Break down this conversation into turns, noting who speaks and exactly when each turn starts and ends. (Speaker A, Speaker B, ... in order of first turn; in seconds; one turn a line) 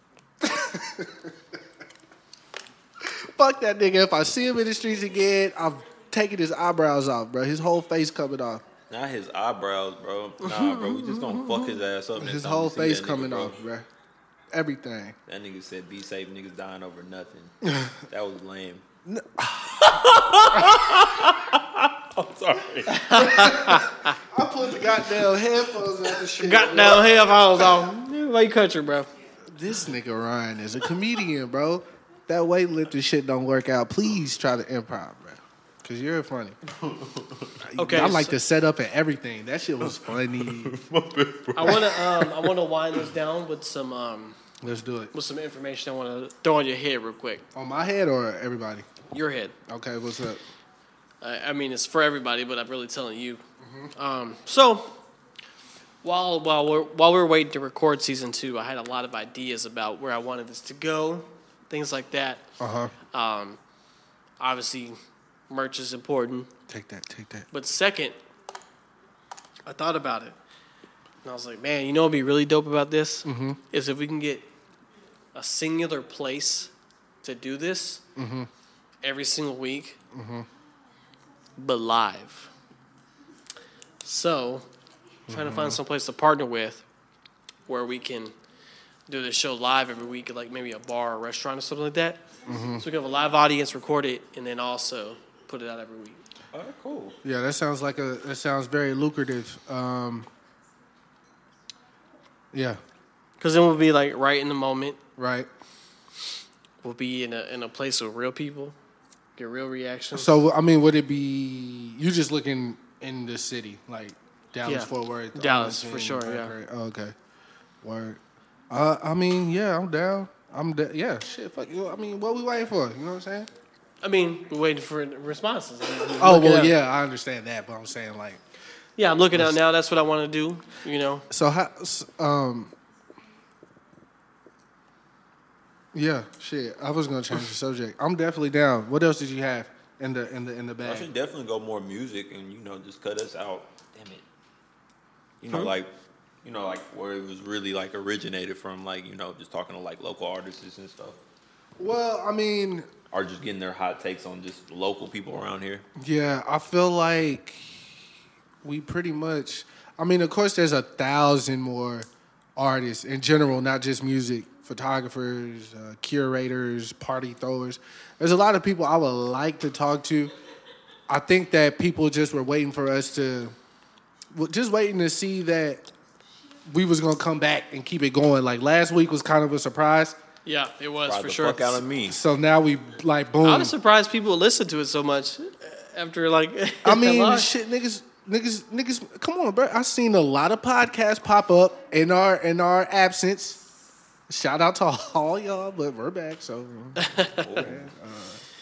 Speaker A: 0.4-1.6
Speaker A: 3.0-8.6
Speaker B: 8.9-13.6
Speaker A: 12.2-13.9
Speaker A: 14.5-15.2
Speaker B: 15.3-18.8
Speaker A: 19.1-20.7
Speaker B: 19.8-23.3
Speaker C: 22.9-24.1
Speaker A: 23.1-27.3
Speaker C: 26.4-29.1
Speaker A: 29.5-36.6
Speaker B: 36.8-37.6
Speaker A: 37.6-40.7
Speaker C: 37.8-38.4
Speaker B: 39.9-42.5
Speaker C: 41.5-44.4
Speaker A: 44.6-45.1
Speaker C: 45.1-47.4
Speaker A: 47.5-48.9
Speaker C: 49.1-49.5
Speaker A: 49.7-50.4
Speaker C: 51.2-53.4
Speaker A: 53.6-53.9
Speaker C: 53.9-54.9
Speaker C: 56.0-62.4
Speaker A: 62.6-62.9
Speaker C: 63.1-63.6
Speaker C: 64.4-65.0
Speaker C: 65.5-66.5
Speaker A: 66.7-67.5
Speaker C: 67.5-68.2
Speaker C: 69.7-70.4
Speaker C: 71.2-74.5
Speaker A: 73.2-73.6
Speaker C: 75.3-76.7
Speaker C: 77.2-78.0
Speaker A: 78.2-78.5
Speaker C: 79.0-80.0
Speaker A: 80.1-80.5
Speaker C: 81.6-82.5
Speaker C: 84.0-84.7
Speaker A: 85.3-85.8
Speaker C: 85.3-86.8
Speaker C: 87.7-88.3
Speaker C: 89.1-92.2
Speaker A: 92.5-92.8
Speaker C: 92.8-96.2
Speaker B: 96.5-97.2
Speaker A: 97.2-100.3
Speaker A: 102.5-102.8
Speaker C: 103.4-105.0
Speaker A: 105.2-105.5
Speaker C: 106.8-108.7
Speaker C: 109.4-110.4
Speaker A: 110.1-117.1
Speaker C: 114.6-116.5
Speaker A: 117.8-123.5
Speaker C: 124.0-126.8
Speaker A: 126.2-128.4
Speaker C: 129.0-131.2
Speaker A: 131.3-132.7
Speaker A: 135.9-141.1
Speaker B: 140.8-144.2
Speaker B: 145.4-145.9
Speaker C: 145.5-145.7
Speaker B: 146.4-151.2
Speaker A: 151.8-152.9
Speaker B: 153.1-155.8
Speaker A: 156.0-158.0
Speaker A: 158.6-170.3
Speaker A: 171.1-173.5
Speaker A: 174.3-175.8
Speaker A: 176.7-180.2
Speaker C: 180.4-181.8
Speaker B: 181.1-182.2
Speaker A: 182.1-183.7
Speaker C: 183.4-187.5
Speaker A: 186.8-193.6
Speaker A: 194.3-198.4
Speaker C: 197.0-197.6
Speaker B: 197.4-197.8